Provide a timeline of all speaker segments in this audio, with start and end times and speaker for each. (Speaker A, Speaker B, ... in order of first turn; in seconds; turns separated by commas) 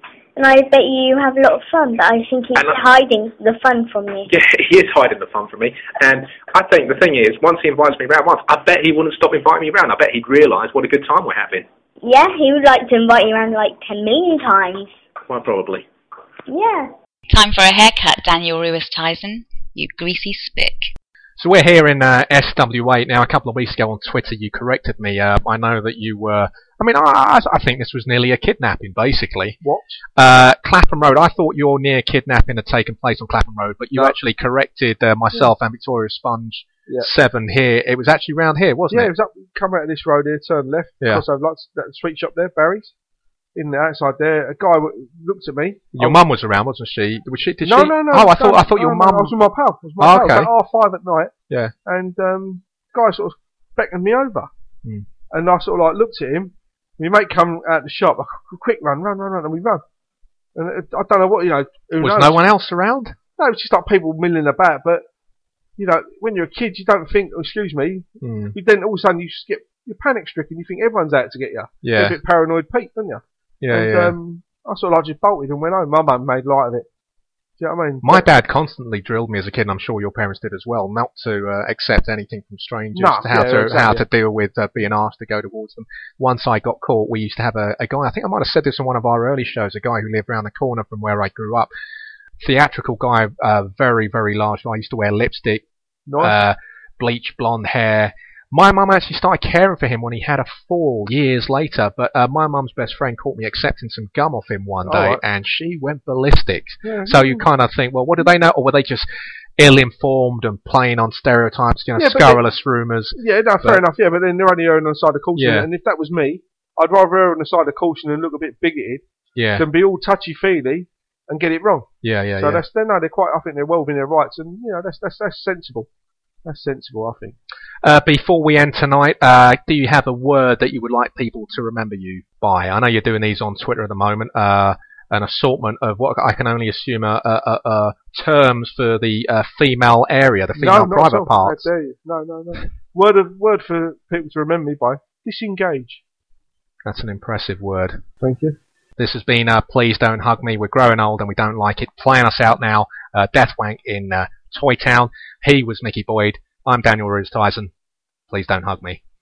Speaker A: 0.4-4.3, Speaker B: 2.5-2.8, Speaker B: 4.3-11.7, Speaker A: 12.0-14.9, Speaker B: 15.3-15.9, Speaker A: 16.5-16.9, Speaker C: 17.3-20.9, Speaker D: 21.4-29.6, Speaker E: 29.6-30.0, Speaker D: 30.2-39.1, Speaker E: 38.9-42.9, Speaker E: 43.5-46.2, Speaker D: 46.0-49.4, Speaker E: 47.6-51.3, Speaker D: 50.0-50.5, Speaker E: 51.9-54.5, Speaker E: 55.3-59.8, Speaker E: 60.6-62.4, Speaker D: 62.0-63.2, Speaker E: 63.4-65.0, Speaker E: 65.8-76.9, Speaker D: 68.2-68.5, Speaker D: 71.8-72.2, Speaker D: 73.6-74.2, Speaker E: 77.6-78.3, Speaker D: 78.0-91.7, Speaker E: 82.9-84.0, Speaker D: 92.4-95.7, Speaker E: 96.1-96.3, Speaker D: 96.2-109.1, Speaker E: 104.8-105.2, Speaker E: 106.8-107.4, Speaker D: 109.6-113.8, Speaker E: 112.0-112.4, Speaker E: 113.2-119.0, Speaker D: 115.4-115.7, Speaker D: 119.4-119.7, Speaker E: 119.6-121.9, Speaker D: 122.0-122.6, Speaker E: 122.4-125.9, Speaker E: 126.5-127.4, Speaker D: 127.8-141.7, Speaker E: 140.6-146.0, Speaker D: 146.8-148.0, Speaker E: 148.2-148.6, Speaker D: 149.0-157.7, Speaker D: 158.3-159.0